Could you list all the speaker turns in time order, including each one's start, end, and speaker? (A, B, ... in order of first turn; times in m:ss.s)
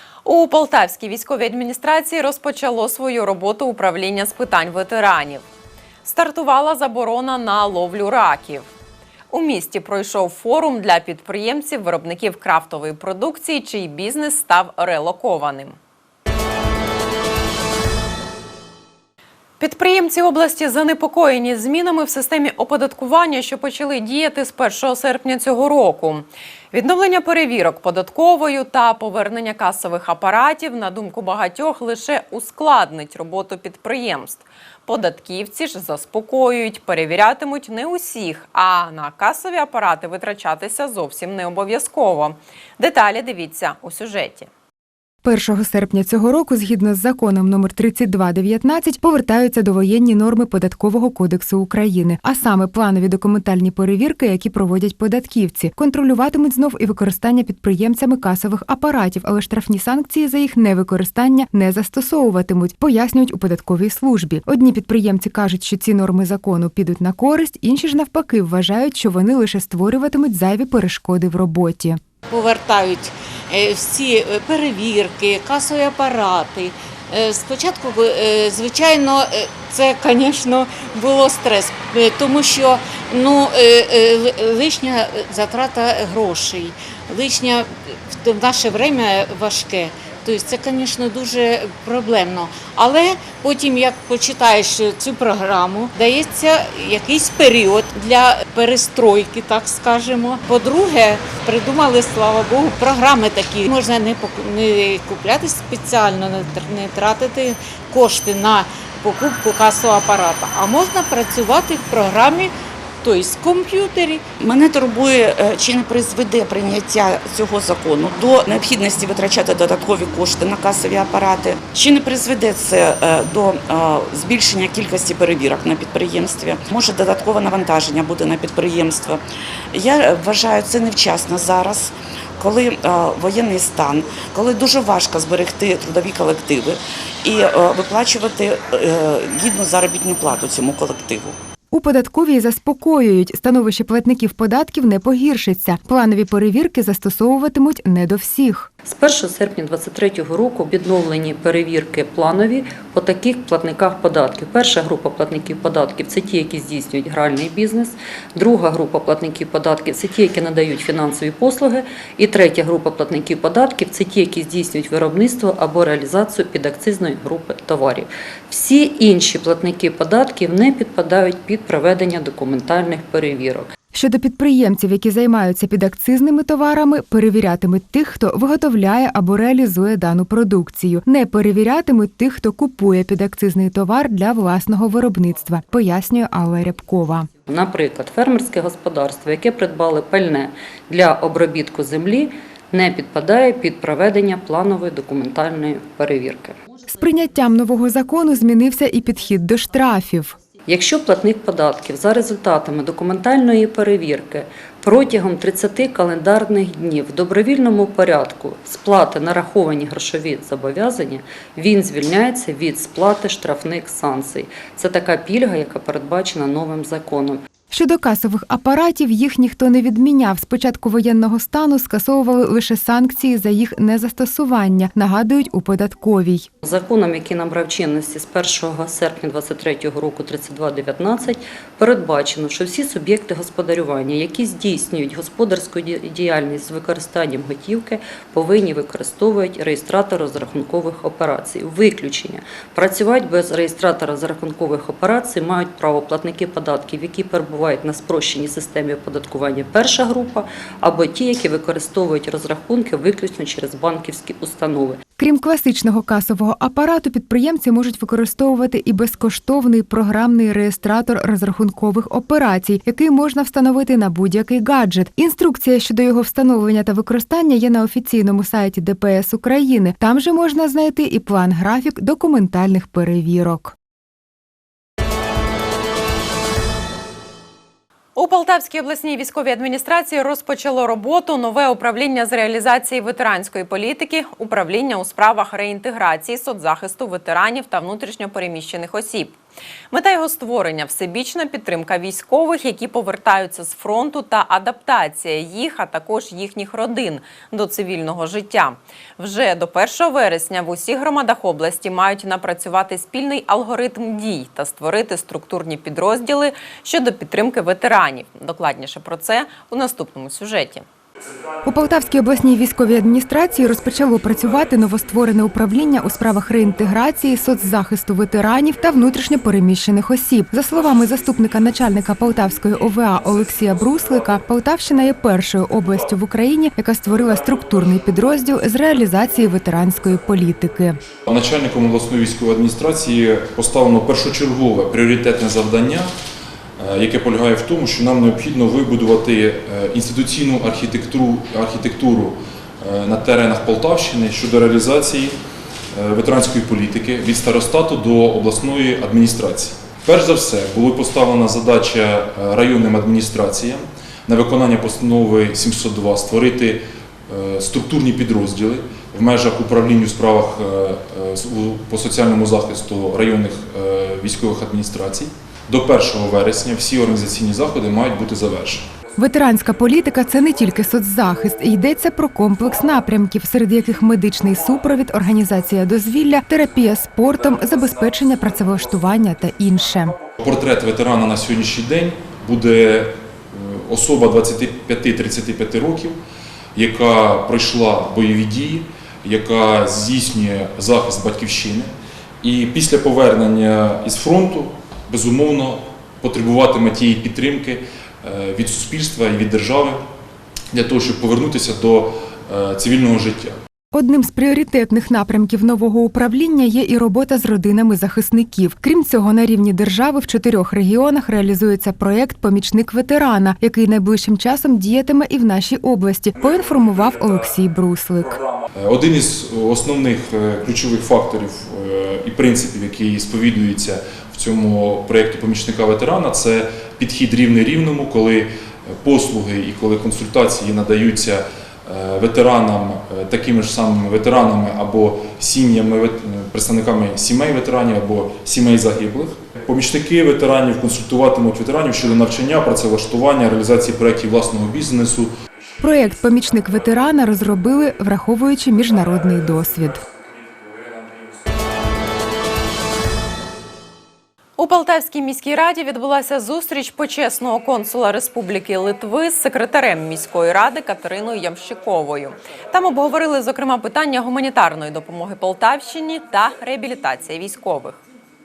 0:00.2-0:05.4 A
0:06.0-0:08.7 A
0:09.3-0:15.8 A
0:19.6-0:44.5 A
0:45.2-1:12.0 B
1:12.3-1:52.5 C
1:53.0-1:54.2 C
1:54.4-2:09.2 D
2:09.7-2:21.4 D
2:21.7-2:28.7 B
2:28.9-2:53.7 E
2:53.9-3:07.3 B
3:07.5-3:16.6 E
3:16.9-3:20.4 B
3:20.7-3:37.4 E
3:37.7-3:46.5 B
3:46.6-4:15.0 E
4:15.2-4:33.7 B
4:38.2-4:49.3 A
4:49.9-5:10.8 A
5:11.6-5:31.0 B
5:31.3-5:36.1 F
5:36.8-5:45.3 F
5:45.9-6:08.9 F
6:09.2-6:20.2 B
6:20.4-6:26.2 F
6:26.8-6:31.9 F
6:32.4-6:40.0 F
6:40.7-6:43.5 F
6:43.9-6:58.4 B
6:58.8-7:25.3 F
7:25.8-7:30.0 B
7:34.6-7:48.0 A